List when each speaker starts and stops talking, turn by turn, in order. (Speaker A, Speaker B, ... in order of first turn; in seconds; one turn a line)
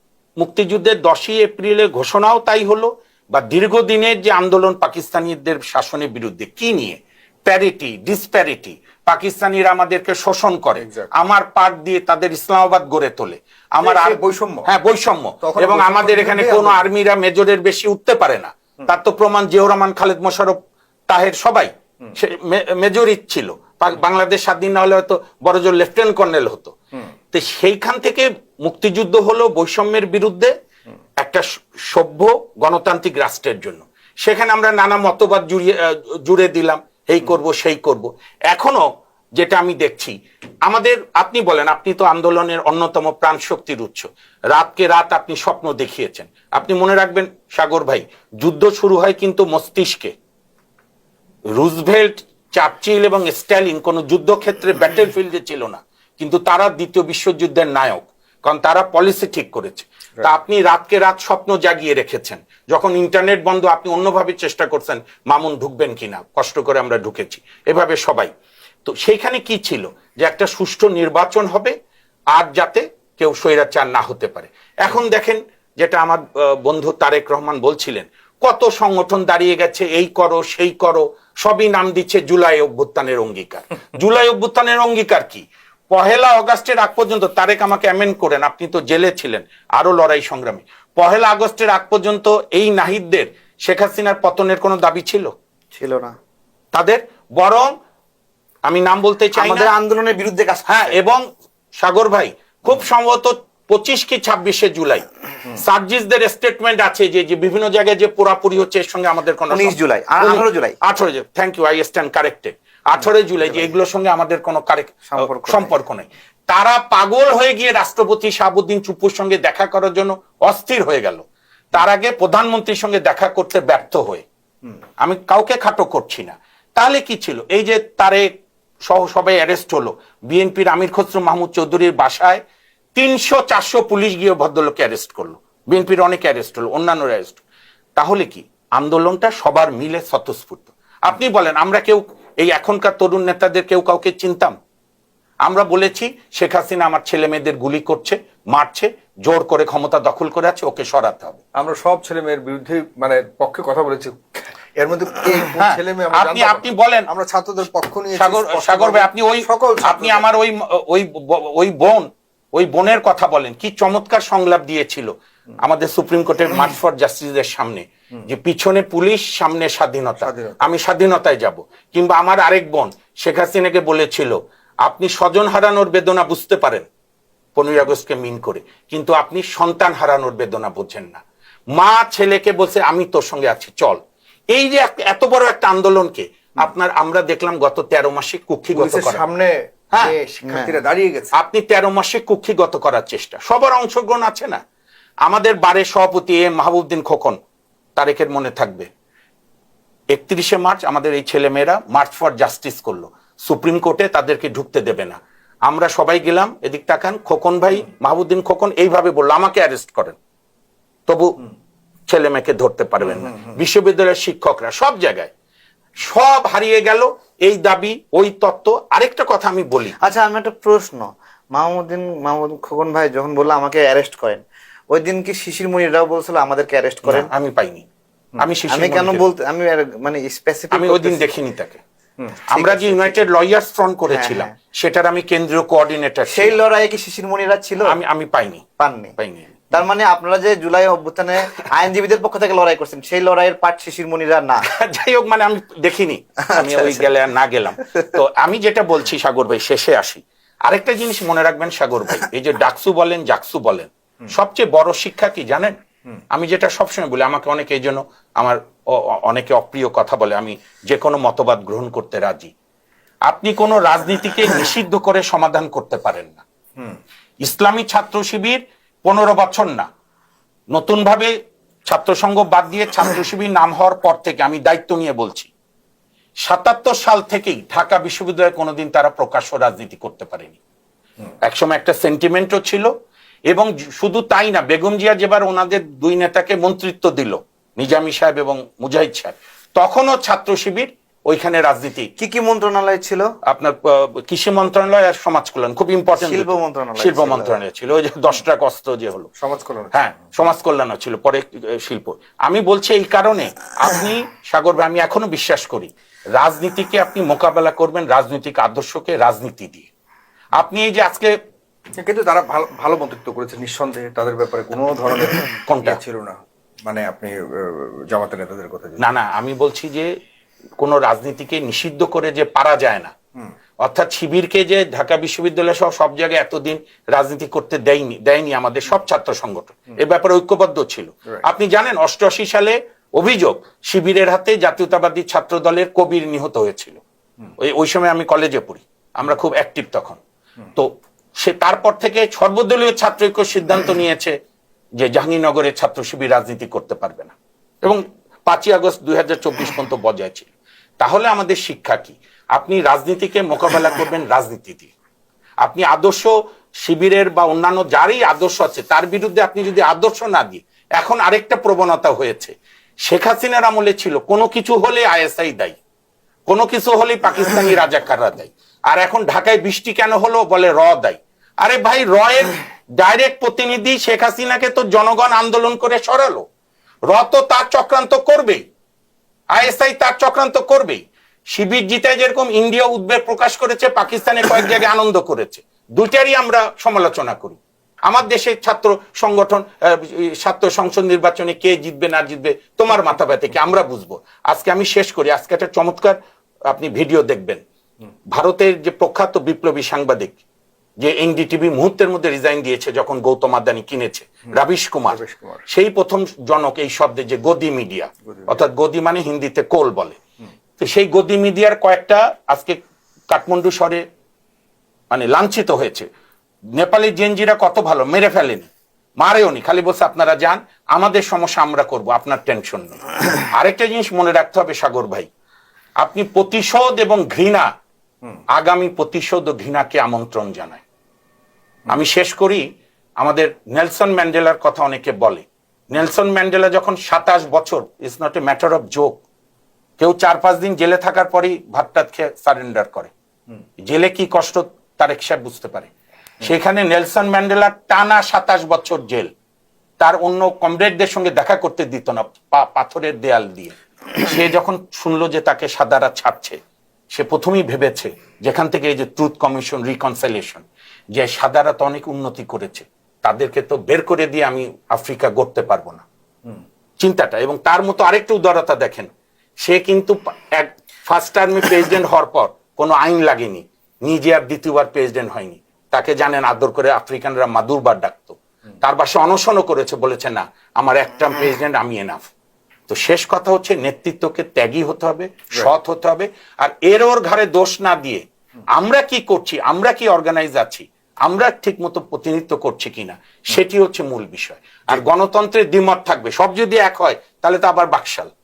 Speaker A: 0.4-20.6
Speaker B: 13.8-14.7
Speaker B: 15.4-16.8
Speaker A: 21.1-26.7
Speaker A: 27.3-30.5
Speaker A: 31.2-38.8
Speaker A: 39.4-50.1
Speaker A: 51.5-68.3
Speaker A: 68.8-71.7
Speaker A: 72.3-95.3
Speaker C: 95.7-96.1
Speaker A: 96.7-97.7
Speaker A: 98.7-99.7
Speaker C: 99.3-100.9
Speaker A: 100.7-101.2
Speaker A: 101.8-124.2
Speaker C: 109.5-110.8
Speaker C: 113.4-113.7
Speaker C: 115.1-115.8
Speaker A: 125.0-128.3
Speaker A: 128.9-132.4
Speaker A: 132.9-137.4
Speaker A: 137.9-144.5
Speaker A: 145.4-151.4
Speaker B: 151.5-160.3
Speaker A: 155.5-157.1
Speaker A: 158.1-165.1
Speaker A: 165.6-176.9
Speaker B: 170.2-170.6
Speaker A: 177.6-181.2
Speaker A: 181.8-184.0
Speaker A: 184.5-189.2
Speaker B: 188.7-191.3
Speaker A: 189.9-190.2
Speaker C: 189.9-190.8
Speaker A: 191.3-194.6
Speaker A: 195.2-197.4
Speaker A: 197.9-198.9
Speaker A: 200.1-210.2
Speaker A: 211.1-211.3
Speaker A: 212.1-215.3
Speaker A: 216.0-219.9
Speaker C: 220.0-227.3
Speaker A: 227.0-227.8
Speaker A: 228.4-229.2
Speaker C: 228.7-231.3
Speaker A: 230.7-231.8
Speaker C: 232.2-233.2
Speaker A: 232.5-236.6
Speaker C: 234.1-234.5
Speaker C: 236.3-237.9
Speaker A: 237.8-238.7
Speaker C: 238.8-239.1
Speaker A: 239.2-239.7
Speaker C: 239.7-244.7
Speaker A: 244.7-255.8
Speaker C: 246.5-247.1
Speaker A: 256.3-262.5
Speaker A: 263.3-266.4
Speaker A: 267.4-269.9
Speaker A: 270.7-271.3
Speaker A: 271.9-275.5
Speaker A: 276.4-280.6
Speaker A: 281.4-282.9
Speaker A: 283.5-292.1
Speaker C: 292.2-293.3
Speaker A: 293.4-299.3
Speaker C: 296.1-297.6
Speaker B: 299.4-299.9
Speaker A: 299.9-309.9
Speaker A: 310.6-311.3
Speaker B: 312.0-319.0
Speaker A: 315.6-316.0
Speaker A: 319.0-320.1
Speaker A: 320.8-323.1
Speaker A: 323.8-337.0
Speaker A: 337.6-340.2
Speaker A: 340.8-344.3
Speaker A: 345.0-354.9
Speaker A: 355.6-365.8
Speaker A: 366.5-376.4
Speaker A: 377.1-378.6
Speaker A: 379.5-396.2
Speaker A: 396.7-397.6
Speaker A: 398.3-400.4
Speaker A: 401.0-410.2
Speaker B: 404.5-405.6
Speaker A: 410.8-412.8
Speaker A: 413.3-414.0
Speaker A: 415.1-416.1
Speaker A: 416.7-418.7
Speaker A: 419.2-425.3
Speaker A: 426.0-427.7
Speaker A: 428.5-430.8
Speaker A: 431.9-432.6
Speaker A: 433.2-439.2
Speaker A: 440.0-443.1
Speaker A: 443.8-449.3
Speaker A: 450.0-456.6
Speaker A: 457.1-466.0
Speaker A: 467.0-469.1
Speaker A: 469.6-482.3
Speaker A: 482.9-498.3